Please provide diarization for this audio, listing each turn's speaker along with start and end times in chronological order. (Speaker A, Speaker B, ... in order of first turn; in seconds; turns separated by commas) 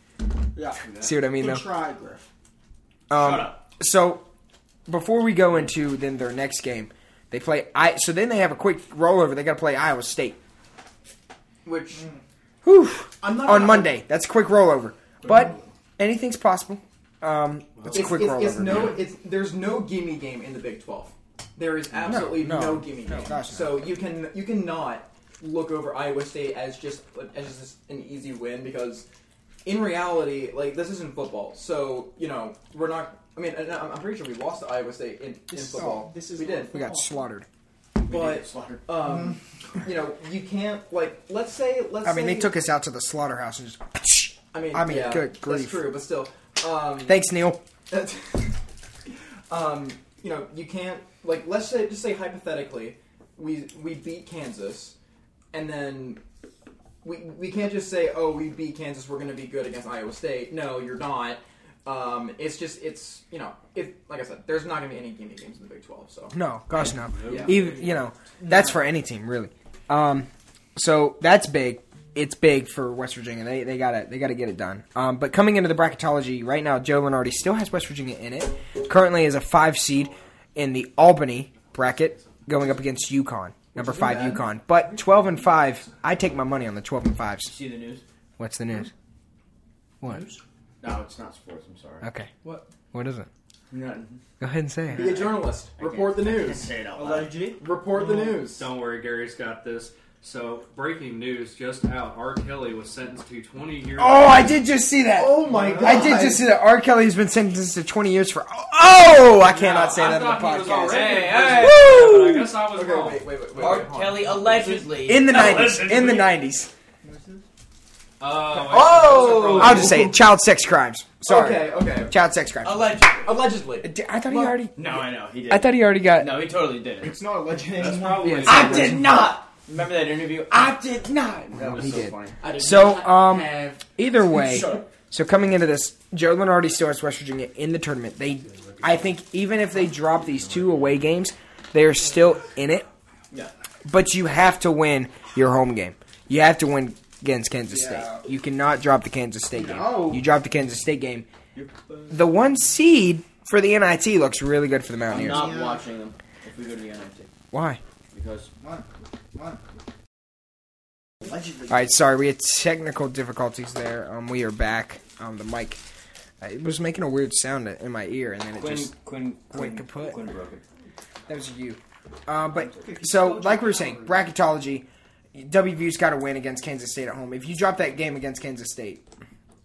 Speaker A: 0.6-2.3, Speaker B: 0.8-1.1, Speaker C: 0.9-1.7, Speaker C: 3.1-4.3, Speaker B: 3.1-3.6, Speaker C: 4.9-10.4, Speaker D: 11.7-12.1, Speaker A: 12.0-12.2, Speaker C: 12.6-18.9, Speaker D: 13.2-14.0, Speaker E: 17.8-18.0, Speaker D: 17.9-29.1, Speaker C: 22.0-23.9, Speaker D: 29.6-36.8, Speaker A: 35.5-37.2, Speaker C: 36.7-37.5, Speaker D: 38.0-42.5, Speaker B: 38.0-39.0, Speaker C: 42.0-45.9, Speaker D: 44.5-47.3, Speaker C: 47.0-47.6, Speaker D: 47.9-48.6, Speaker D: 49.1-55.0, Speaker D: 55.5-56.2, Speaker D: 57.0-66.4, Speaker C: 66.3-87.5, Speaker E: 67.1-67.5, Speaker D: 67.3-67.7, Speaker D: 68.4-68.8, Speaker D: 83.7-84.4, Speaker B: 87.5-88.0, Speaker C: 88.4-88.9, Speaker A: 90.1-90.4, Speaker B: 90.8-92.1, Speaker C: 92.0-92.3, Speaker C: 92.9-93.3, Speaker B: 93.7-94.2, Speaker C: 94.4-95.1, Speaker D: 94.9-96.7, Speaker B: 95.0-97.5, Speaker A: 97.0-97.6, Speaker D: 97.6-98.7, Speaker E: 98.0-104.6, Speaker C: 104.0-112.5, Speaker D: 105.1-106.4, Speaker A: 105.5-106.1, Speaker E: 109.4-113.4, Speaker B: 110.9-111.8, Speaker D: 112.7-114.5, Speaker B: 113.5-116.2, Speaker C: 115.1-116.7, Speaker E: 115.2-116.3, Speaker A: 117.0-117.5, Speaker E: 118.2-120.1, Speaker D: 118.6-120.2, Speaker C: 119.2-122.9, Speaker D: 121.2-122.1, Speaker B: 122.6-123.3, Speaker D: 123.2-124.6, Speaker C: 123.8-124.8, Speaker B: 124.7-127.2, Speaker C: 125.5-126.4, Speaker A: 127.0-128.8, Speaker E: 127.7-129.0, Speaker C: 128.2-129.3, Speaker B: 128.4-133.6, Speaker C: 131.6-142.9, Speaker D: 132.4-133.7, Speaker B: 134.3-134.9, Speaker E: 138.5-139.0, Speaker C: 143.8-151.3, Speaker A: 147.7-148.2, Speaker A: 149.5-150.2, Speaker B: 151.6-152.2, Speaker C: 152.1-155.5, Speaker B: 155.1-157.3, Speaker A: 155.2-155.8, Speaker C: 157.5-157.8, Speaker B: 158.1-158.5, Speaker A: 158.6-159.6, Speaker A: 161.2-161.8, Speaker C: 161.7-165.8, Speaker C: 166.4-168.9, Speaker B: 168.5-170.6, Speaker C: 169.5-170.2, Speaker C: 171.3-179.0, Speaker B: 172.5-172.8, Speaker A: 172.7-174.2